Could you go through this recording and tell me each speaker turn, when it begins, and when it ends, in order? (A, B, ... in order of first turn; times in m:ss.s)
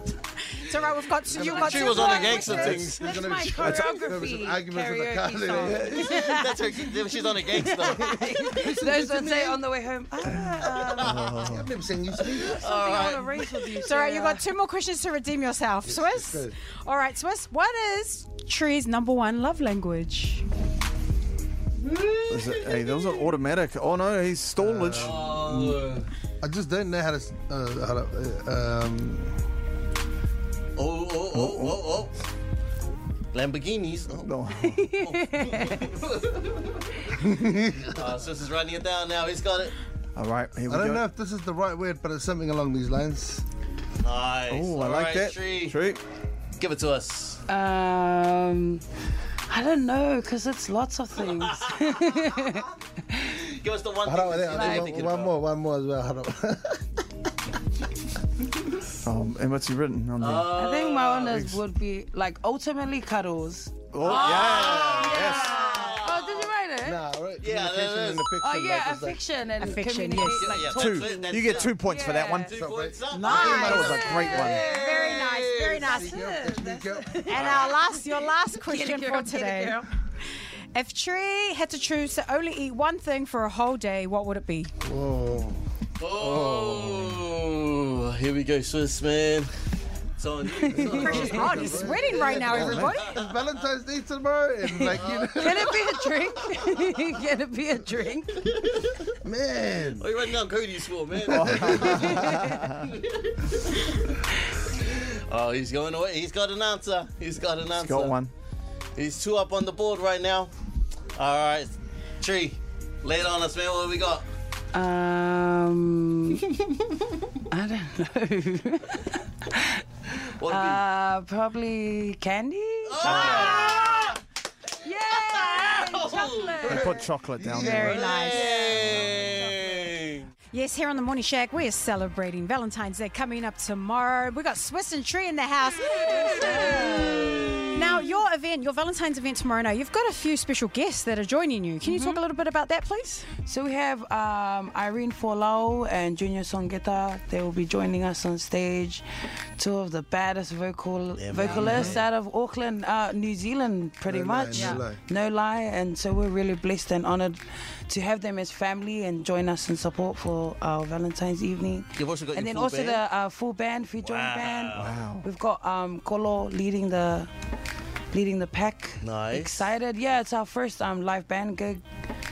0:00.5-0:02.7 A
0:01.3-0:04.1 B
0:01.3-0:06.2 C
0:01.6-0:11.2 D
0:05.9-0:08.7 B
0:08.0-0:09.5 C
0:10.3-0:11.7 E
0:10.6-0:11.4 B
0:11.4-0:12.6 C
0:12.2-0:13.6 B
0:12.4-0:14.4 D
0:13.7-0:20.5 A
0:15.8-0:16.6 C
0:21.8-0:23.2 B
0:22.3-0:25.8 E
0:24.6-0:25.8 C
0:24.9-0:26.1 B
0:26.4-0:29.4 C
0:30.8-0:32.1 B
0:31.3-0:31.8 E
0:33.3-0:37.1 B
0:34.2-0:34.9 E
0:34.6-0:35.9 D
0:37.2-0:38.0 C
0:37.8-0:39.8 B
0:40.2-0:41.0 E
0:40.7-0:43.4 C
0:44.0-0:45.8 B
0:44.5-0:46.0 E
0:46.6-0:47.4 B
0:47.5-0:48.8 D
0:49.5-0:53.4 D
0:51.2-0:55.3 B
0:54.0-0:57.0 C
0:54.5-0:55.0 D
0:59.0-1:00.5 E
1:00.2-1:01.4 B
1:00.5-1:07.1 D
1:01.2-1:01.6 E
1:03.9-1:05.6 E
1:04.0-1:06.5 B
1:06.8-1:09.2 C
1:07.4-1:08.3 B
1:08.4-1:12.5 D
1:09.6-1:10.6 A
1:10.2-1:15.9 B
1:10.7-1:12.5 E
1:12.5-1:13.0 C
1:13.1-1:16.2 A
1:13.2-1:14.6 E
1:13.4-1:14.9 D
1:15.8-1:19.9 D
1:15.9-1:17.6 C
1:17.2-1:19.8 A
1:17.3-1:17.8 B
1:20.7-1:24.7 A
1:24.8-1:25.6 C
1:26.0-1:29.5 B
1:26.2-1:27.0 C
1:26.5-1:26.8 E
1:30.2-1:33.3 B
1:30.5-1:31.8 D
1:30.9-1:35.7 C
1:30.9-1:33.2 A
1:32.6-1:32.9 E
1:34.7-1:38.4 D
1:34.9-1:37.0 B
1:38.5-1:39.1 B
1:39.2-1:40.1 C
1:40.0-1:44.2 B
1:41.2-1:42.9 E
1:42.0-1:42.5 D
1:44.7-1:48.2 B
1:47.8-1:48.3 E
1:49.0-1:50.5 B
1:51.2-1:54.2 B
1:54.7-1:56.4 D
1:56.6-1:57.0 B
1:57.5-1:59.8 D
2:00.3-2:00.8 B
2:00.4-2:04.1 D
2:02.8-2:04.2 B
2:03.1-2:03.9 A
2:04.8-2:07.1 D
2:05.1-2:07.0 B
2:06.6-2:08.1 E
2:07.4-2:09.8 C
2:07.5-2:08.5 A
2:07.8-2:10.3 B
2:08.3-2:08.7 D
2:10.5-2:16.9 A
2:16.3-2:17.7 D
2:17.0-2:17.6 B
2:17.7-2:23.3 A
2:21.8-2:22.2 D
2:23.4-2:29.0 D
2:29.6-2:47.3 D
2:31.1-2:32.0 B
2:31.5-2:31.9 C
2:31.6-2:32.0 E
2:34.0-2:35.0 C
2:34.5-2:34.8 A
2:42.0-2:43.0 B
2:44.0-2:44.9 B
2:44.7-2:45.2 E
2:48.1-2:51.8 D
2:49.0-2:49.7 B